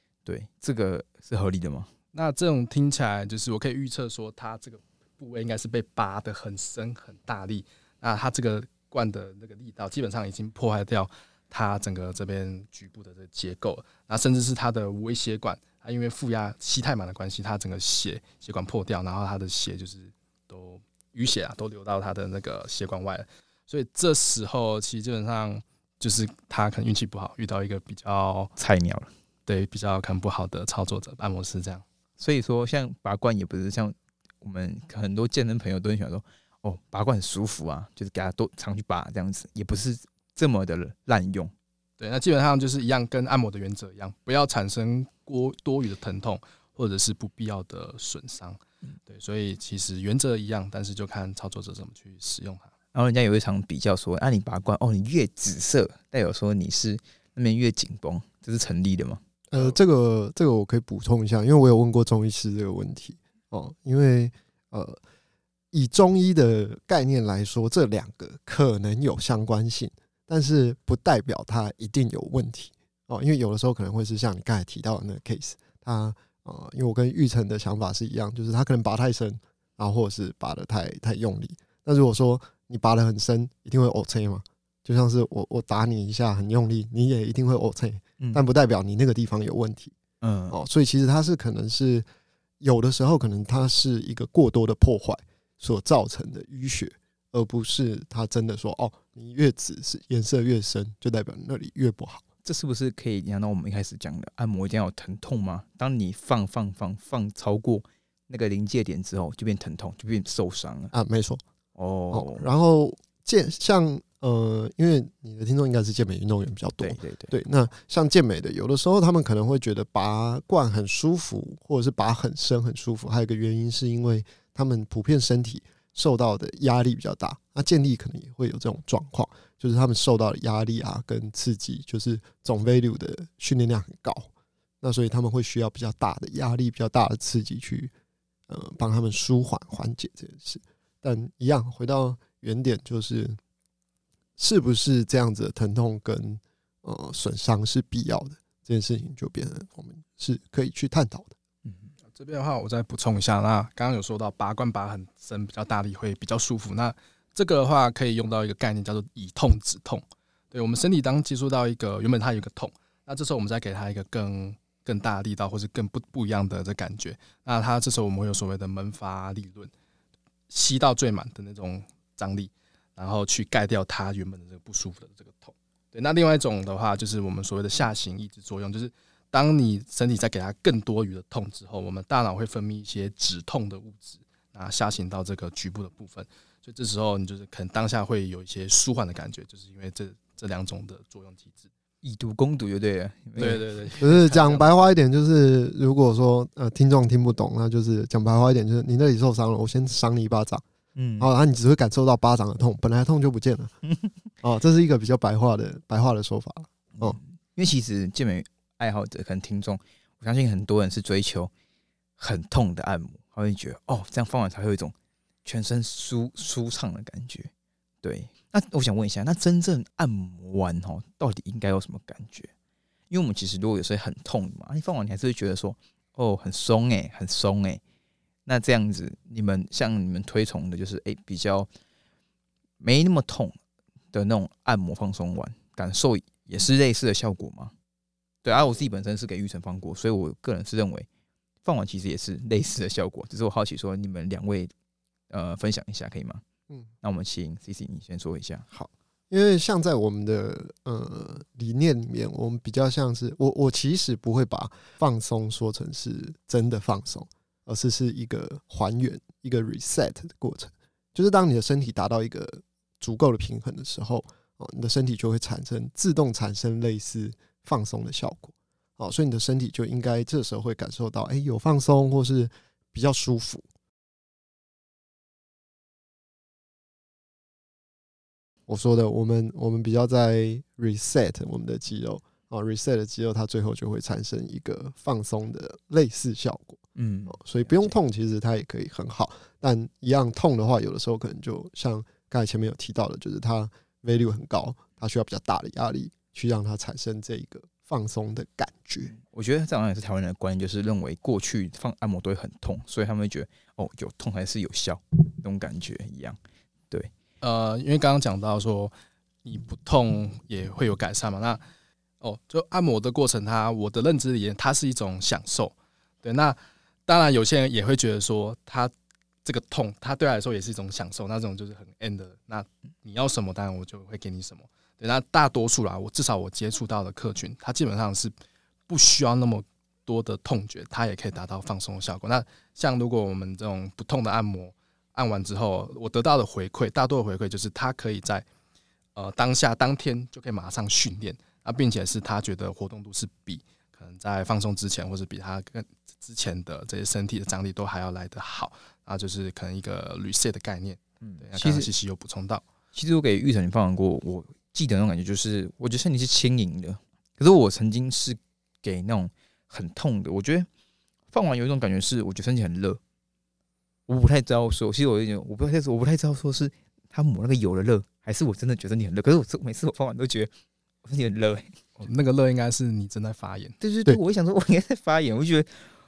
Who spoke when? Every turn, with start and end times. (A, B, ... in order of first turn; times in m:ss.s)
0:00.2-0:01.9 A
0:02.1-0:28.5 B
0:28.6-0:29.1 A
0:29.5-0:31.8 B
0:32.2-0:41.5 A
0:42.0-0:52.7 B
0:52.9-0:59.2 A
0:59.5-1:05.0 C
1:05.7-1:29.9 C
1:30.2-1:30.6 A
1:30.5-1:32.0 C
1:32.6-1:42.2 C
1:42.4-1:50.9 A
1:50.9-1:51.4 C
1:51.8-1:52.5 A
1:52.1-2:14.3 C
1:56.8-1:57.3 A
2:14.8-2:17.9 C
2:18.5-2:23.4 C
2:24.4-2:31.3 C
2:32.1-2:49.7 B
2:50.5-3:11.7 B
3:12.0-3:13.6 A
3:13.4-3:15.0 B
3:14.0-3:20.6 C
3:21.0-3:21.3 A
3:21.2-3:23.7 C
3:24.4-3:27.2 C
3:27.0-3:31.5 A
3:32.2-3:34.9 A
3:35.4-3:37.5 A
3:38.0-3:42.5 A
3:43.1-3:47.8 A
3:48.4-3:51.7 A
3:52.8-3:53.6 A
3:54.1-3:57.7 A
3:58.4-4:01.1 A
4:01.6-4:04.7 A
4:05.3-4:06.4 A
4:07.0-4:08.6 A
4:08.7-4:33.6 C
4:38.7-4:59.1 C
4:47.0-4:47.9 A
4:59.1-5:06.4 A
5:07.4-5:08.9 B
5:09.4-5:11.6 B
5:12.2-5:18.9 B
5:19.4-5:28.3 B
5:28.9-5:38.4 B
5:39.2-5:52.6 B
5:51.2-5:51.9 A
5:52.9-6:00.7 A
6:01.3-6:03.0 A
6:04.1-6:10.5 A
6:11.0-6:11.7 A
6:12.0-6:13.8 B
6:13.8-6:15.8 A